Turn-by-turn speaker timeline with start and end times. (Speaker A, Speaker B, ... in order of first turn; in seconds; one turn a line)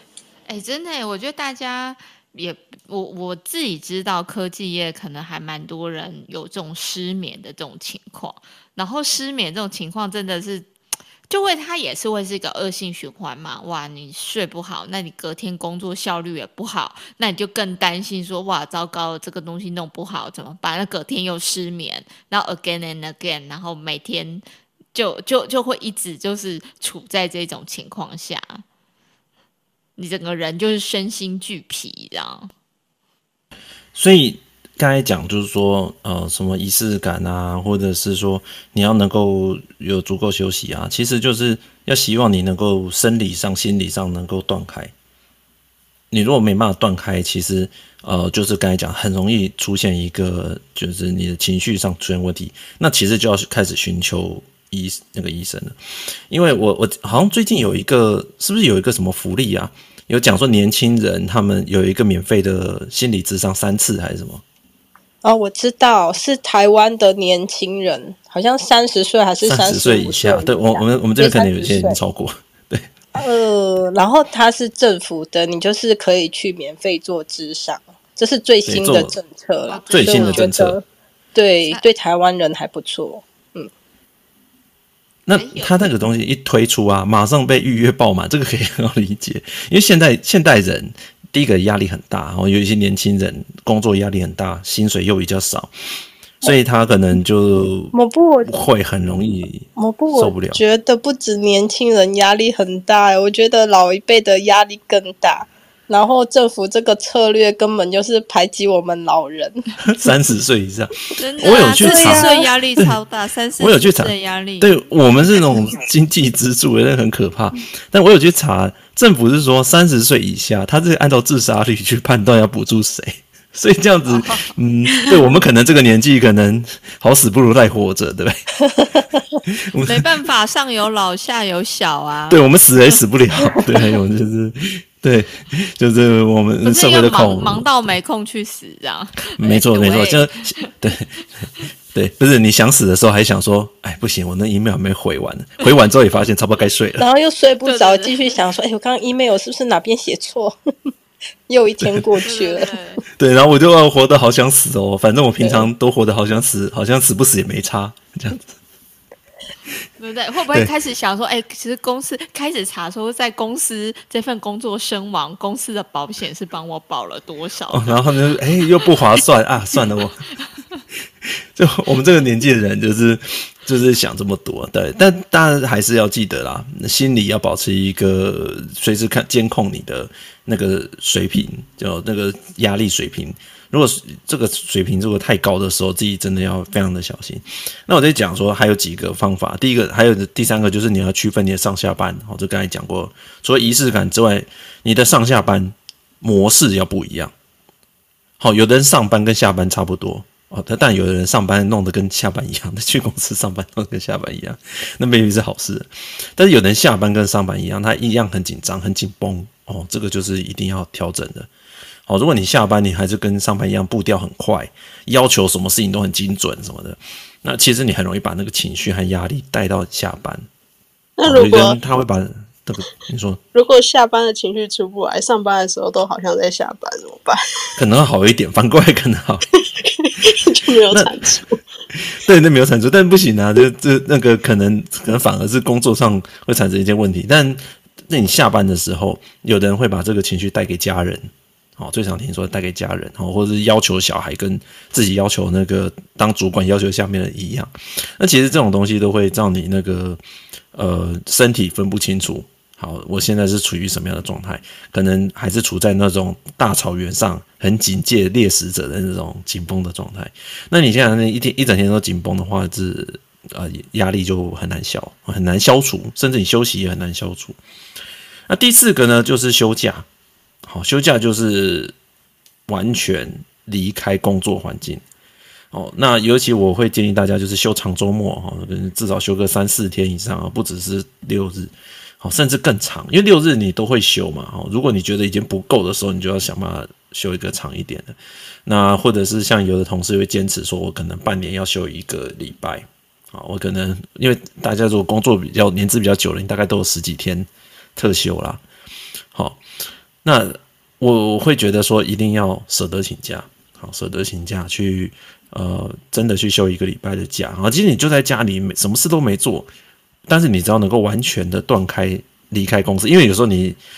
Speaker A: 0.5-10.7
Speaker A: 11.3-24.4
Speaker A: 24.9-28.6
Speaker A: 30.0-32.5
Speaker B: 34.0-44.9
Speaker B: 46.1-55.8
Speaker B: 56.3-64.4
Speaker C: 65.2-72.0
Speaker B: 69.4-72.9
Speaker C: 73.2-80.8
Speaker B: 78.7-79.2
Speaker A: 79.7-80.5
Speaker B: 79.9-80.8
Speaker C: 81.3-83.7
Speaker B: 85.3-95.7
Speaker A: 85.3-85.9
Speaker B: 96.4-97.9
Speaker C: 97.9-98.6
Speaker B: 98.5-100.6
Speaker C: 99.8-109.7
Speaker B: 109.8-113.0
Speaker A: 111.2-114.8
Speaker C: 111.8-112.5
Speaker B: 113.6-128.4
Speaker A: 124.1-124.5
Speaker B: 129.5-130.0
Speaker A: 129.8-132.4
Speaker B: 132.3-137.7
Speaker A: 136.6-140.7
Speaker B: 139.3-141.1
Speaker B: 141.9-147.1
Speaker C: 147.0-150.6
Speaker A: 147.6-148.4
Speaker C: 151.5-152.8
Speaker B: 151.8-152.1
Speaker A: 152.2-153.0
Speaker B: 153.2-158.6
Speaker C: 155.4-155.7
Speaker A: 160.0-168.0
Speaker B: 167.7-170.3
Speaker B: 171.2-197.3
Speaker B: 198.4-211.5
Speaker B: 212.1-220.5
Speaker D: 221.2-221.8
Speaker B: 221.3-223.4
Speaker D: 223.5-227.4
Speaker B: 227.8-229.5
Speaker D: 229.6-231.6
Speaker B: 231.9-250.2
Speaker B: 250.7-267.6
Speaker B: 268.5-270.1
Speaker B: 270.6-271.9
Speaker B: 272.7-275.0
Speaker B: 275.7-288.1
Speaker B: 288.7-298.6
Speaker B: 299.3-299.6
Speaker B: 300.2-309.7
Speaker B: 310.3-313.8